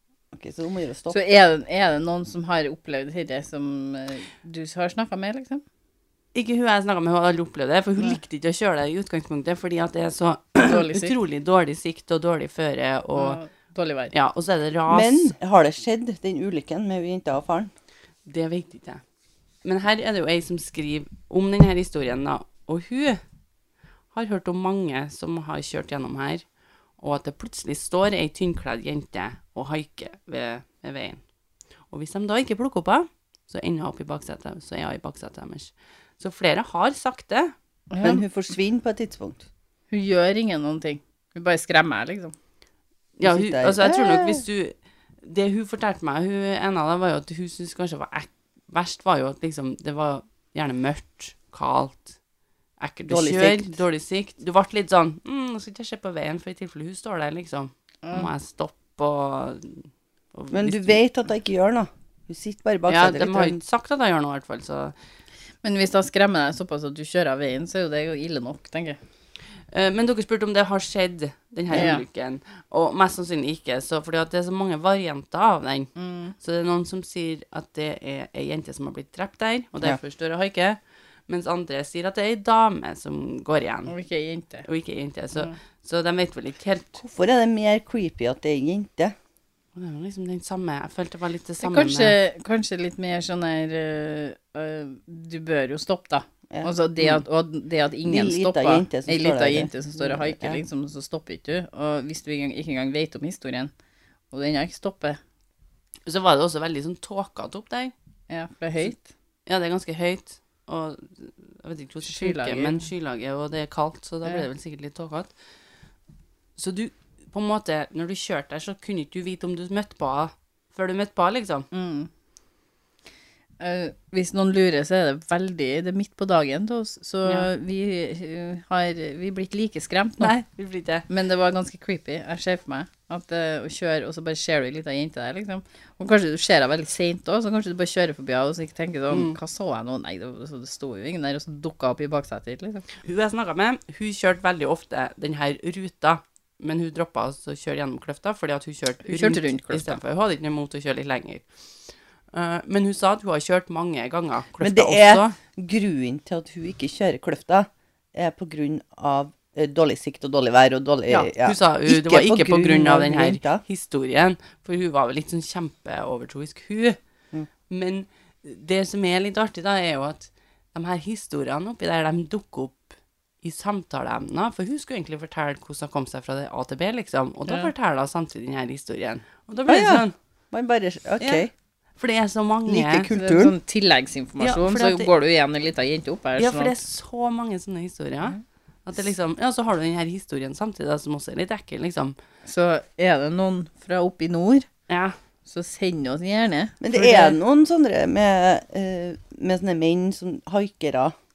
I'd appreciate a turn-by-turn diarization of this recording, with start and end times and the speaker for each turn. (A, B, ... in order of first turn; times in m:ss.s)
0:00.3-0:01.2 A
0:01.1-0:05.6 B
0:06.4-0:13.4 C
0:10.6-0:11.1 B
0:13.2-0:14.1 B
0:14.1-0:15.3 C
0:14.9-0:17.7 A
0:18.3-0:19.0 C
0:19.6-0:23.2 C
0:24.1-0:26.4 C
0:27.0-0:31.2 C
0:31.9-0:37.5 C
0:37.9-0:38.2 B
0:38.0-0:39.5 A
0:39.9-0:42.4 B
0:43.2-0:52.2 C
0:43.2-0:44.4 A
0:52.8-1:01.0 C
0:53.1-0:53.8 A
0:58.0-0:58.3 B
1:00.5-1:03.6 A
1:02.9-1:04.9 C
1:05.6-1:09.0 B
1:09.7-1:23.9 C
1:11.7-1:12.0 B
1:16.0-1:16.4 B
1:23.9-1:24.7 B
1:24.7-1:27.0 C
1:27.0-1:29.2 A
1:29.8-1:32.2 C
1:31.6-1:43.7 B
1:38.0-1:40.6 A
1:44.3-1:45.2 B
1:46.1-1:47.9 C
1:48.3-1:49.1 B
1:49.5-1:55.3 C
1:52.1-1:52.8 B
1:56.6-2:01.7 C
2:01.7-2:02.1 B
2:03.6-2:10.3 B
2:10.2-2:11.1 C
2:11.1-2:22.9 B
2:19.1-2:19.4 C
2:23.0-2:31.5 C
2:29.0-2:30.0 B
2:32.3-2:35.4 C
2:34.6-2:43.6 A
2:41.1-2:47.0 C
2:47.7-2:52.9 C
2:53.4-3:00.1 C
2:59.7-3:01.5 A
3:01.2-3:03.1 C
3:02.7-3:03.5 A
3:03.1-3:06.8 B
3:04.4-3:05.1 C
3:06.4-3:12.2 C
3:12.5-3:14.7 B
3:14.9-3:15.2 C
3:15.5-3:17.4 B
3:16.8-3:21.1 A